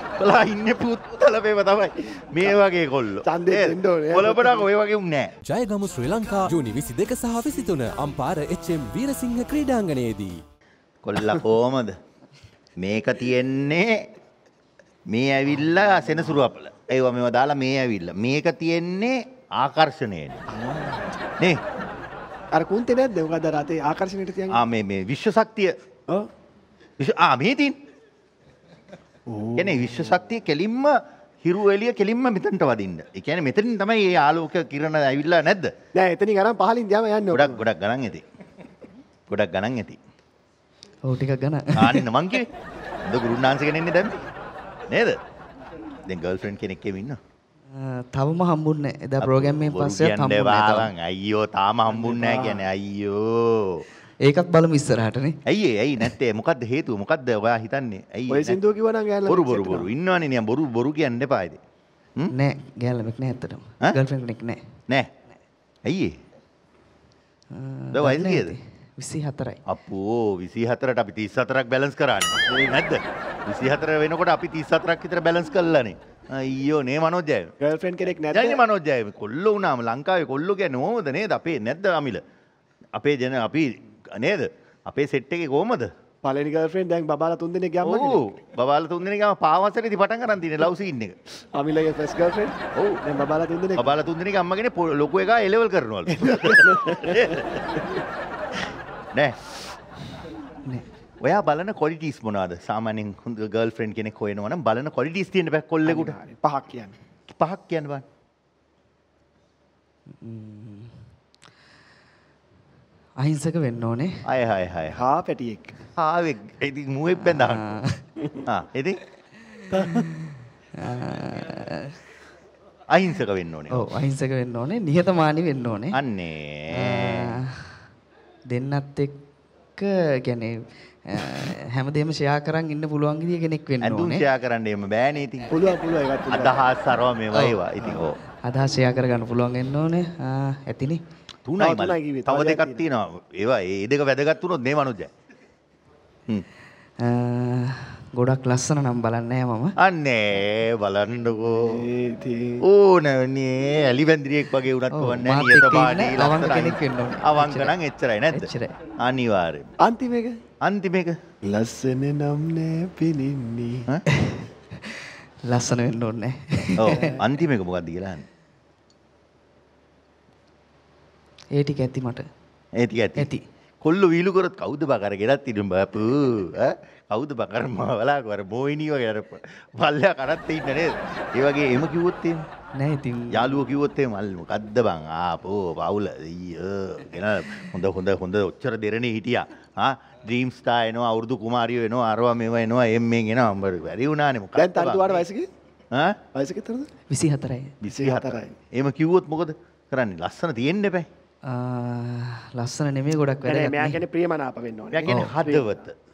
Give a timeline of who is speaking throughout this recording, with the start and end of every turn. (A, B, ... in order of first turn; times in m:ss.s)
0:00.2-0:05.3 A
0:03.2-0:04.6 B
0:05.4-0:10.4 C
0:11.0-0:11.9 A
0:12.8-0:14.0 A
0:15.1-0:20.4 A
0:20.5-0:21.1 B
0:22.5-0:24.6 B
0:24.5-0:25.7 A
0:27.0-0:27.7 A
0:29.3-0:30.1 B
0:29.6-0:35.7 A
0:35.9-0:37.6 B
0:37.3-0:38.2 A
0:39.3-0:40.0 A
0:41.0-0:42.1 D
0:41.8-0:42.5 A
0:43.0-0:44.2 A
0:44.9-0:45.2 A
0:46.1-0:47.2 A
0:47.7-0:50.9 D
0:49.2-0:53.8 A
0:51.9-0:52.6 B
0:54.2-0:55.4 D
0:55.5-0:58.6 A
0:58.3-0:59.9 B
0:59.2-1:01.6 A
1:02.3-1:04.6 D
1:05.8-1:06.1 A
1:07.5-1:09.6 D
1:07.9-1:08.5 A
1:09.7-1:17.5 A
1:17.6-1:18.6 B
1:18.3-1:22.2 A
1:23.0-1:25.9 A
1:26.2-1:28.3 B
1:27.8-1:31.2 A
1:31.5-1:33.9 B
1:32.8-1:33.0 A
1:33.8-1:37.6 A
1:36.2-1:37.9 B
1:41.2-1:46.2 A
1:45.8-1:46.9 B
1:47.3-1:48.0 A
1:50.2-1:50.9 D
1:53.2-1:54.1 D
1:54.2-1:55.0 A
1:54.9-1:55.7 B
1:56.0-1:57.6 A
1:57.2-1:58.0 D
1:58.4-1:59.0 A
1:59.5-2:00.2 D
1:59.7-2:00.1 B
2:00.8-2:01.9 D
2:02.9-2:03.8 A
2:03.7-2:06.0 D
2:05.9-2:07.3 A
2:06.7-2:07.8 D
2:08.5-2:09.2 D
2:09.8-2:14.2 D
2:13.8-2:15.6 A
2:15.5-2:16.6 B
2:16.3-2:18.2 A
2:17.3-2:17.9 D
2:18.4-2:21.0 D
2:21.4-2:25.1 A
2:21.6-2:22.9 B
2:27.0-2:29.7 D
2:29.8-2:31.9 A
2:31.6-2:32.6 B
2:32.6-2:38.5 A
2:34.9-2:37.7 D
2:38.3-2:38.7 D
2:39.0-2:39.7 A
2:39.8-2:40.4 B
2:40.6-2:41.2 A
2:41.4-2:43.8 B
2:44.1-2:47.2 D
2:46.8-2:48.2 A
2:46.8-2:47.2 B
2:51.5-2:52.3 D
2:52.8-2:53.3 A
2:53.2-2:53.4 D
2:53.8-3:02.4 A
3:02.8-3:03.7 D
3:03.3-3:15.2 A
3:14.6-3:15.5 B
3:15.9-3:16.2 A
3:16.3-3:16.9 B
3:17.1-3:17.7 D
3:17.8-3:21.0 A
3:17.9-3:18.6 B
3:21.5-3:24.0 D
3:23.4-3:25.7 B
3:24.9-3:25.9 A
3:25.1-3:25.3 D